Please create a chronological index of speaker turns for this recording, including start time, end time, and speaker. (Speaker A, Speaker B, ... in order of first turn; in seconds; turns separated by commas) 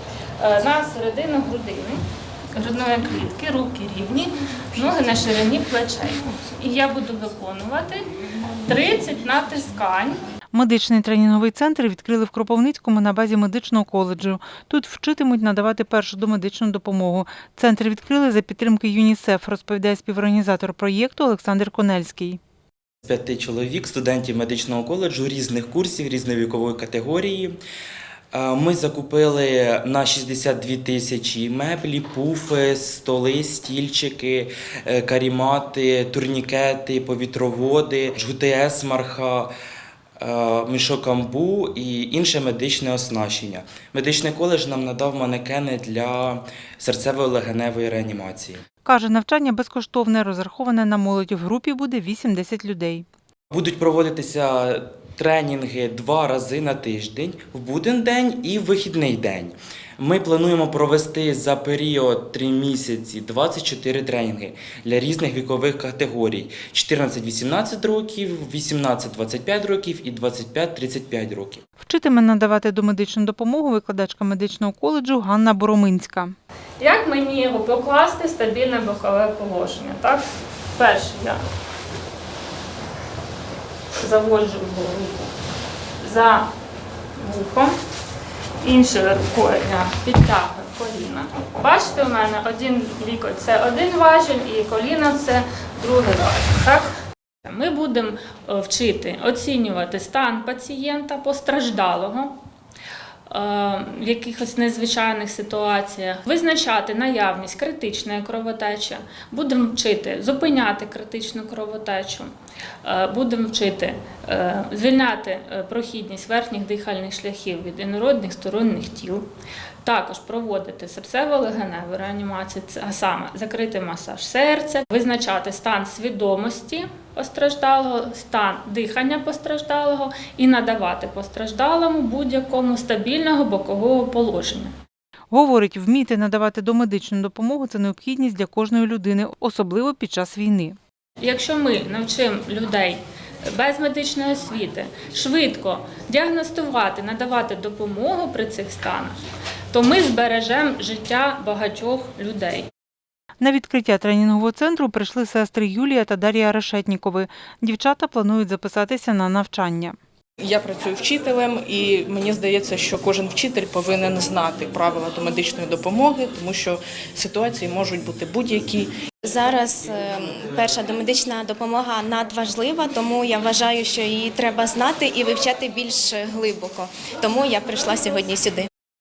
Speaker A: 0.4-2.0, Speaker A: 2.5-8.1, Speaker A: 8.6-10.2, Speaker B: 10.5-22.4, Speaker C: 23.0-27.6, Speaker C: 28.3-39.5, Speaker C: 40.2-48.6, Speaker B: 48.8-53.0, Speaker C: 53.5-71.6, Speaker B: 71.8-76.3, Speaker A: 76.8-80.2, Speaker A: 80.8-81.4, Speaker A: 84.0-85.3, Speaker A: 86.0-86.5, Speaker A: 87.2-87.7, Speaker A: 88.6-96.9, Speaker A: 97.4-102.3, Speaker A: 103.3-112.3, Speaker A: 112.8-119.2, Speaker A: 119.8-134.7, Speaker B: 135.3-140.8, Speaker A: 141.2-149.2, Speaker A: 149.7-152.7, Speaker B: 153.4-160.0, Speaker D: 160.4-168.9, Speaker E: 169.2-178.7